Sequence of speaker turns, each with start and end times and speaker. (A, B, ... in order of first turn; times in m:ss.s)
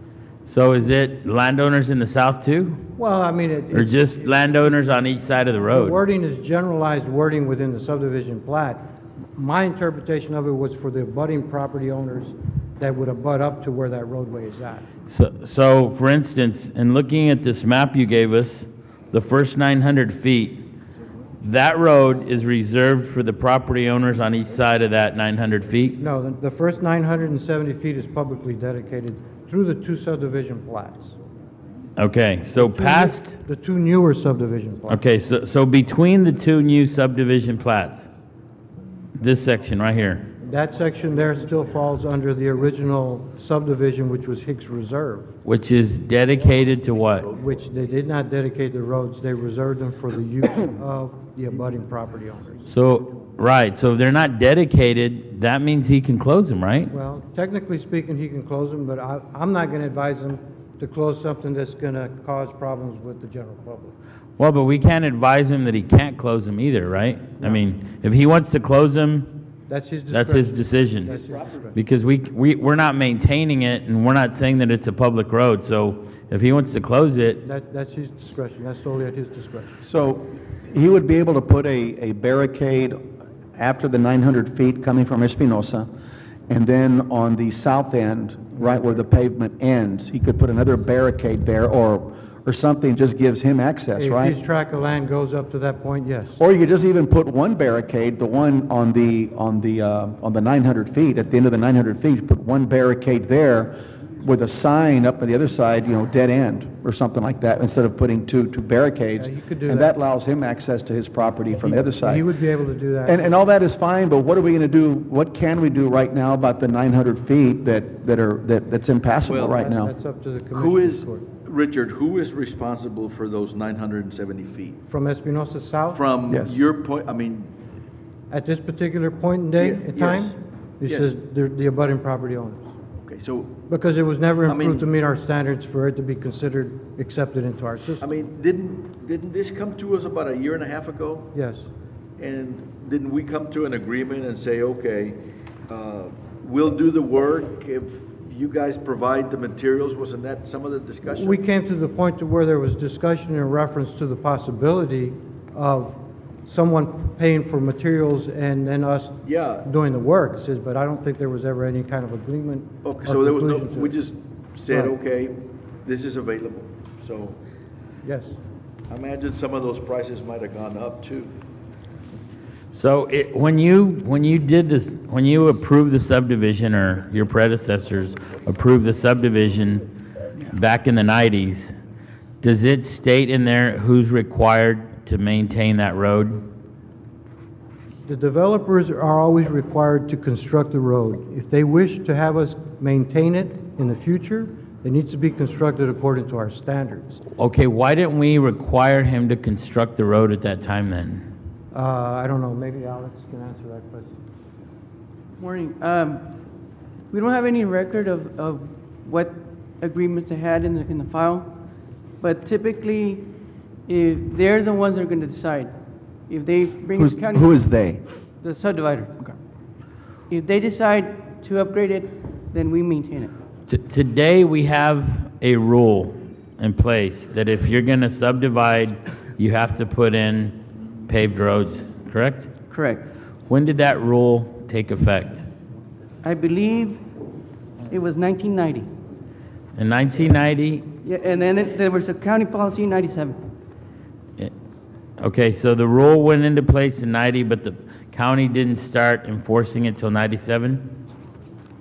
0:00.4-0:02.8 A
0:03.0-0:04.5 B
0:03.7-0:06.0 A
0:05.7-0:08.8 B
0:09.4-0:14.8 B
0:15.1-0:20.6 A
0:21.4-0:26.0 A
0:26.0-0:31.2 B
0:32.0-0:33.4 A
0:32.6-0:35.0 B
0:34.9-0:38.1 A
0:39.2-0:40.3 A
0:40.4-0:45.3 B
0:45.4-0:47.3 A
0:47.3-0:52.6 B
0:52.7-0:56.9 A
0:56.9-1:03.9 B
1:04.4-1:09.3 A
1:09.7-1:11.8 B
1:10.1-1:11.1 A
1:11.0-1:11.6 C
1:11.7-1:17.4 A
1:17.4-1:19.8 B
1:19.8-1:23.0 D
1:23.6-1:25.9 D
1:26.5-1:34.4 D
1:28.6-1:29.0 B
1:33.9-1:36.4 B
1:36.4-1:52.3 D
1:49.2-1:49.9 B
1:51.6-1:53.3 B
1:53.0-1:59.9 D
1:59.2-1:59.6 C
1:59.5-2:01.2 B
2:00.5-2:04.8 C
2:04.9-2:06.0 B
2:05.9-2:07.5 C
2:08.3-2:12.7 B
2:09.6-2:10.3 C
2:10.8-2:11.1 C
2:13.0-2:13.6 C
2:13.7-2:18.1 B
2:14.5-2:14.8 C
2:18.0-2:21.3 C
2:21.3-2:21.7 B
2:22.2-2:31.4 C
2:31.1-2:43.9 B
2:39.2-2:39.6 C
2:42.8-2:47.4 C
2:44.7-2:44.9 B
2:48.0-2:48.4 B
2:48.9-2:51.3 C
2:52.7-2:59.8 A
3:00.5-3:01.7 A
3:02.4-3:06.4 A
3:08.0-3:17.2 B
3:17.4-3:21.2 A
3:21.7-3:24.2 B
3:25.4-3:26.2 E
3:27.1-3:31.5 E
3:32.2-3:33.3 E
3:33.9-3:35.7 E
3:36.3-3:37.6 E
3:37.0-3:38.0 D
3:38.4-3:39.1 E
3:40.3-3:43.3 E
3:43.7-3:50.5 A
3:51.1-3:52.5 A
3:52.7-3:53.1 E
3:53.5-3:55.5 A
3:56.2-3:57.0 E
3:57.9-3:58.9 E
3:59.7-4:00.8 A
4:01.0-4:03.4 E
4:05.2-4:10.9 A